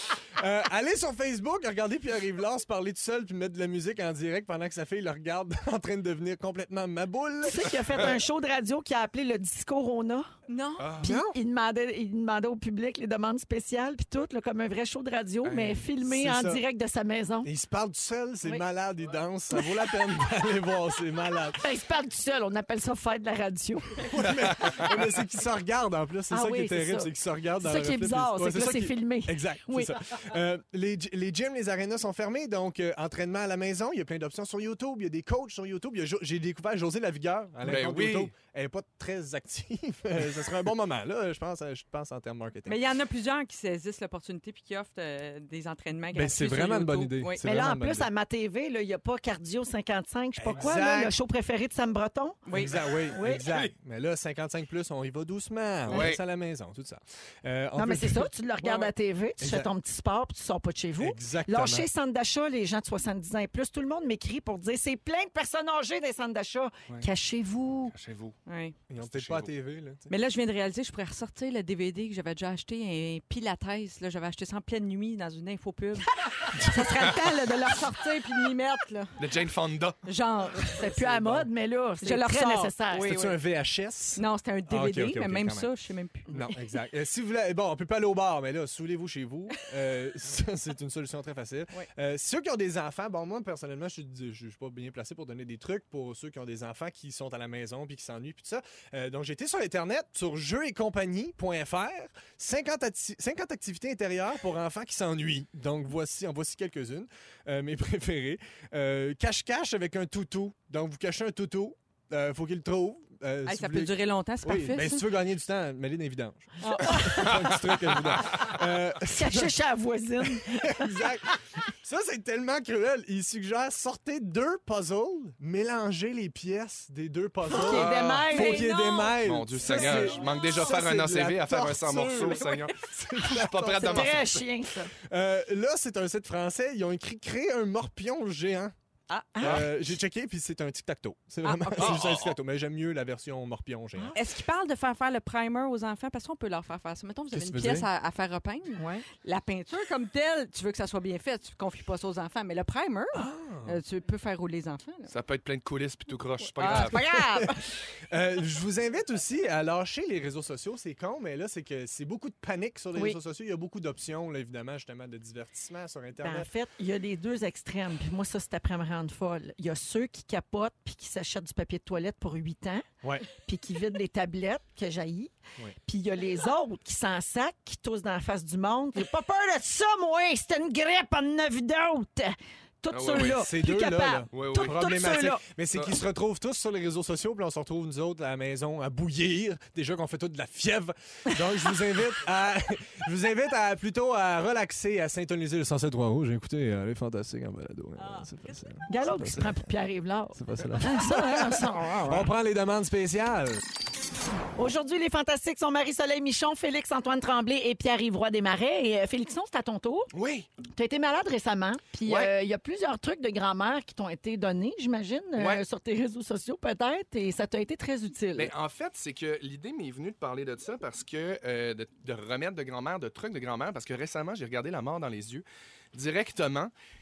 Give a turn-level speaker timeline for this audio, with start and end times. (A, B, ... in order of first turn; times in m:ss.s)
0:00.4-0:07.8 A
0:07.4-0:10.3 B
0:10.5-0:10.9 C
0:10.8-0:11.1 D
0:11.0-0:11.3 A
0:11.0-0:17.5 B
0:15.4-0:15.8 D
0:15.6-0:16.6 A
0:17.4-0:21.6 A
0:19.5-0:19.9 B
0:21.6-0:24.1 B
0:24.0-0:42.8 A
0:24.4-0:24.9 D
0:26.3-0:30.2 B
0:37.6-0:38.3 D
0:42.6-0:47.4 C
0:46.1-0:48.1 A
0:47.4-0:53.4 B
0:50.4-0:51.2 A
0:52.4-0:52.8 C
0:52.5-0:58.3 A
0:53.2-0:53.7 D
0:55.9-0:56.2 D
0:57.8-1:07.9 B
0:58.6-0:58.9 C
0:59.4-0:59.7 A
1:01.0-1:01.9 A
1:07.9-1:08.3 D
1:08.5-1:08.7 C
1:08.9-1:10.1 A
1:09.0-1:09.5 D
1:10.1-1:19.2 C
1:16.7-1:17.2 B
1:19.2-1:20.0 D
1:20.0-1:20.8 C
1:20.8-1:23.2 B
1:20.8-1:21.5 A
1:22.0-1:23.4 C
1:23.0-1:25.7 A
1:24.1-1:26.4 C
1:26.3-1:59.5 A
1:53.4-1:55.1 C
1:56.6-1:57.4 C
1:59.0-2:01.1 B
2:00.3-2:14.4 A
2:07.5-2:09.1 B
2:07.7-2:08.2 D
2:08.3-2:09.1 C
2:09.2-2:14.4 D
2:09.7-2:10.1 B
2:13.7-2:14.9 B
2:15.0-2:18.7 A
2:19.1-2:19.5 C
2:19.3-2:19.7 B
2:19.4-2:24.2 A
2:21.4-2:22.0 C
2:21.8-2:22.4 D
2:24.1-2:35.1 C
2:27.3-2:27.9 A
2:28.8-2:29.0 B
2:33.1-2:33.8 A
2:35.1-2:37.0 D
2:36.6-2:37.6 C
2:36.6-2:46.5 A
2:46.2-3:05.5 B
2:53.0-2:53.3 A
3:02.9-3:03.4 D
3:03.1-3:19.6 A
3:04.3-3:04.8 D
3:05.7-3:06.0 D
3:18.0-3:18.8 C
3:18.9-3:22.3 B
3:20.4-3:23.6 A
3:24.5-3:30.1 B
3:30.1-3:30.5 D
3:30.7-3:38.5 B
3:32.0-3:32.3 D
3:35.4-3:35.6 D
3:38.3-3:46.7 D